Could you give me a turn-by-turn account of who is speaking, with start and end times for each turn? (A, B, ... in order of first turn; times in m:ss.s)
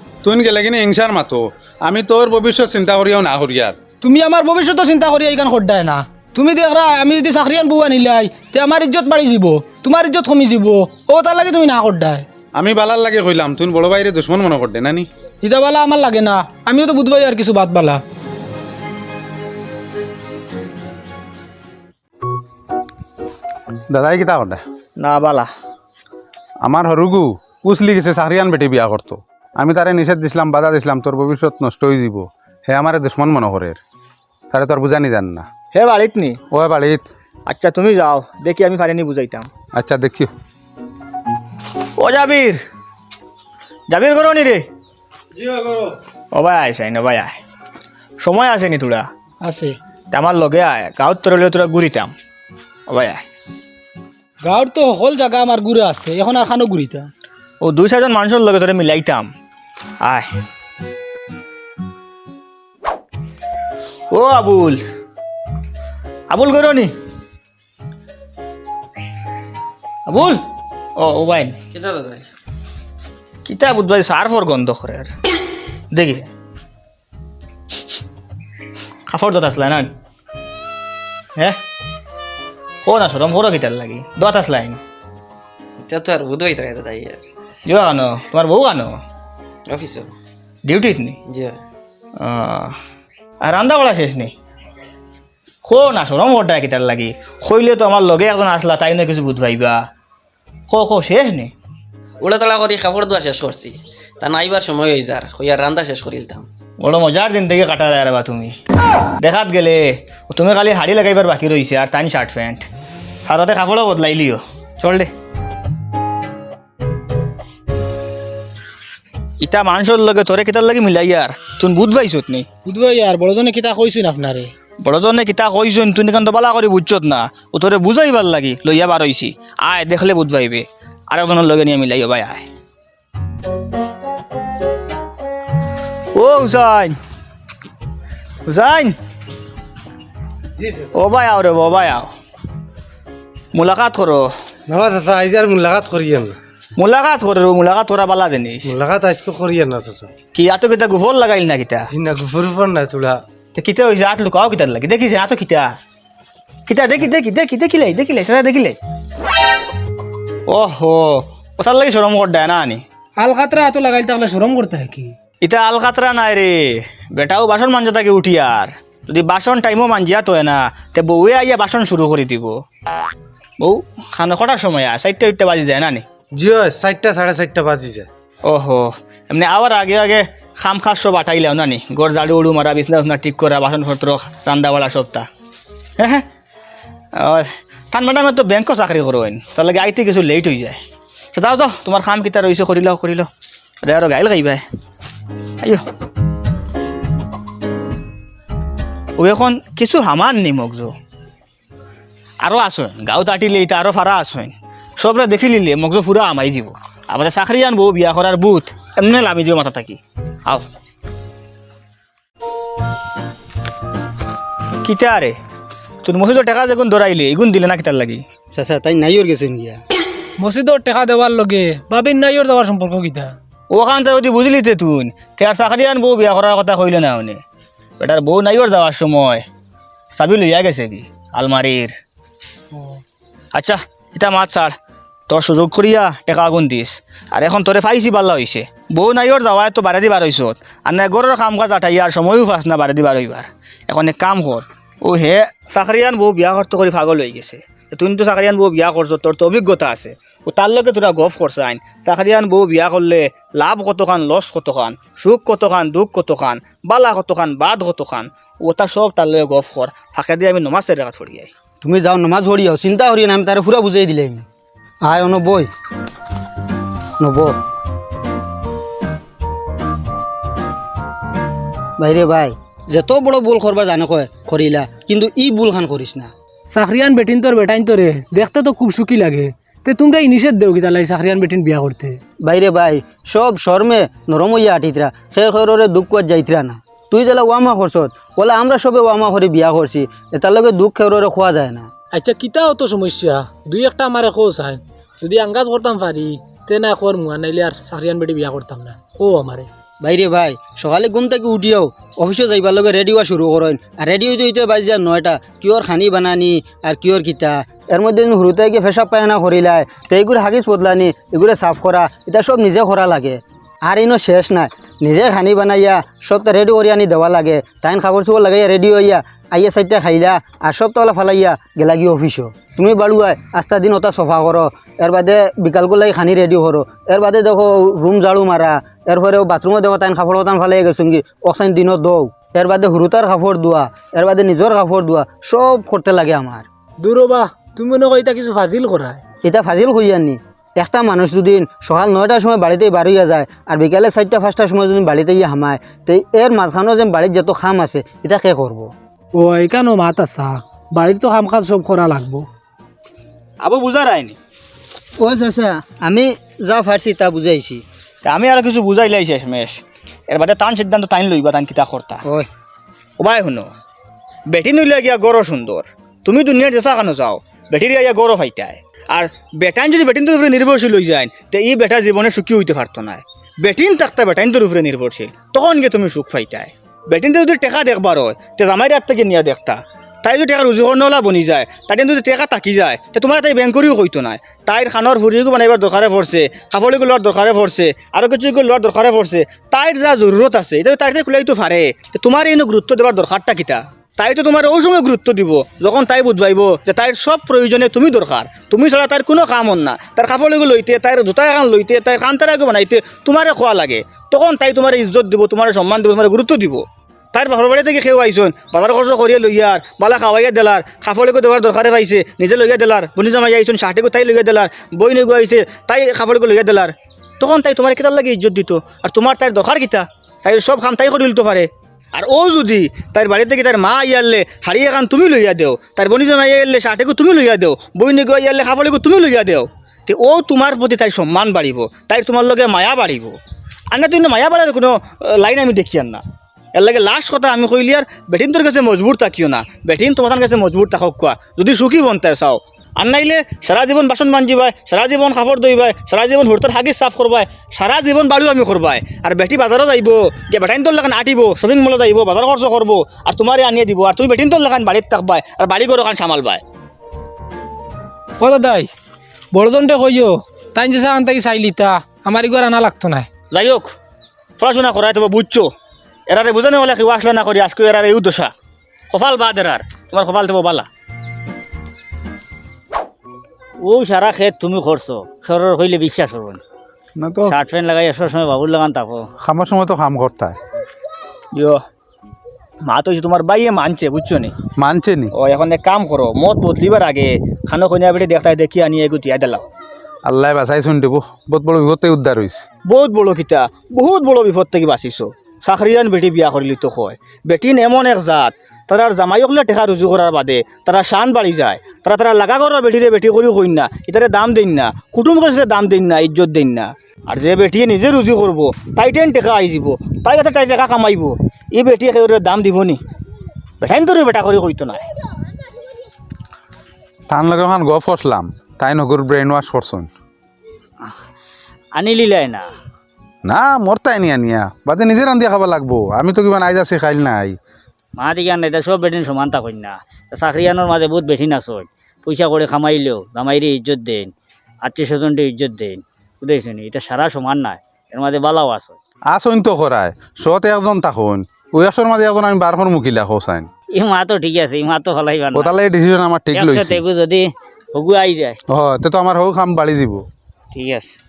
0:00.2-0:03.8 A
0:04.0-0:12.2 B
0:12.6-0:15.1 A
0:15.4-0:18.0 B
0:23.9-0:24.6 A
0:25.0-0:25.4 C
0:26.6-0:33.8 A
0:34.5-0:35.4 A
0:35.7-0:36.4 C
0:36.5-0:37.1 A
0:37.4-0:39.5 C
0:39.7-0:40.3 A
0:42.0-0:42.6 C
0:43.9-0:44.6 C
0:46.3-0:47.4 C
0:48.2-0:49.0 C
0:49.4-0:49.8 B
0:50.1-0:52.1 C
0:52.9-0:53.2 C
0:54.4-0:57.1 B
0:57.6-0:59.3 C
1:00.0-1:00.3 C
1:04.1-1:04.8 C
1:06.3-1:06.9 C
1:10.1-1:10.4 C
1:11.0-1:11.6 C
1:11.7-1:12.2 D
1:13.4-1:15.1 C
1:15.9-1:16.3 C
1:19.1-1:19.9 C
1:22.8-1:24.8 C
1:25.8-1:27.2 D
1:27.6-1:29.0 C
1:29.7-1:30.1 D
1:30.6-1:31.2 C
1:31.3-1:31.6 D
1:32.2-1:32.8 C
1:33.4-1:34.3 C
1:35.6-1:39.8 C
1:40.7-1:41.5 C
1:42.2-1:46.4 D
1:46.8-1:48.5 C
1:49.2-1:52.6 C
1:53.2-1:55.1 C
1:59.4-2:02.4 C
2:02.6-2:04.5 B
2:04.8-2:12.4 C
2:16.1-2:17.0 C
2:18.4-2:18.9 C
2:20.9-2:22.1 C
2:23.5-2:24.3 C
2:24.7-2:26.4 E
2:26.8-2:28.7 C
2:28.6-2:30.1 E
2:30.3-2:31.8 C
2:31.9-2:33.2 E
2:33.5-2:35.7 C
2:36.7-2:38.8 C
2:40.5-2:42.8 C
2:43.2-2:45.1 B
2:45.4-2:52.5 C
2:53.6-2:56.0 C
2:56.3-2:58.1 E
2:58.4-3:05.3 C
3:06.0-3:06.2 C
3:07.1-3:10.8 C
3:11.3-3:13.3 C
3:13.8-3:14.6 C
3:19.2-3:20.9 C
3:22.4-3:30.6 C
3:34.8-3:35.3 C
3:36.0-3:38.2 C
3:38.5-3:39.8 F
3:40.4-3:43.3 B
3:43.7-3:47.4 C
3:48.0-3:49.4 C
3:50.1-3:51.9 C
3:53.5-3:54.8 C
3:55.3-4:21.5 C
4:21.8-4:24.4 F
4:25.0-4:25.7 F
4:27.2-4:27.5 F
4:32.0-4:36.3 F
4:36.7-4:42.2 B
4:42.4-4:51.9 F
4:52.1-4:59.7 B
5:00.0-5:36.6 F
5:37.0-5:39.2 B
5:39.4-5:48.9 F
5:49.3-5:52.4 B
5:53.6-5:54.4 C
5:55.2-5:57.8 F
5:58.2-5:59.8 C
6:00.3-6:02.2 C
6:03.2-6:03.7 C
6:04.5-6:46.8 C
6:47.3-7:13.4 C
7:13.9-7:16.2 C
7:16.7-7:36.6 C
7:38.4-7:38.9 B
7:39.5-7:43.3 B
7:43.5-7:43.9 C
7:44.6-7:45.7 C
7:46.3-7:48.5 C
7:49.1-7:50.9 C
7:53.8-7:56.6 G
7:57.2-7:57.6 A
7:57.4-7:59.3 G
7:59.4-8:00.6 A
8:01.5-8:01.8 C
8:02.8-8:04.6 C
8:04.8-8:05.3 A
8:05.3-8:09.6 C
8:10.2-8:12.6 A
8:12.8-8:33.0 C
8:33.8-8:35.0 C
8:37.3-8:40.1 A
8:41.9-8:42.7 G
8:43.4-8:47.6 A
8:48.2-8:59.0 G
8:59.3-9:03.7 A
9:03.9-9:05.8 G
9:05.5-9:07.0 A
9:06.5-9:08.6 G
9:08.7-9:10.2 A
9:10.7-9:11.1 G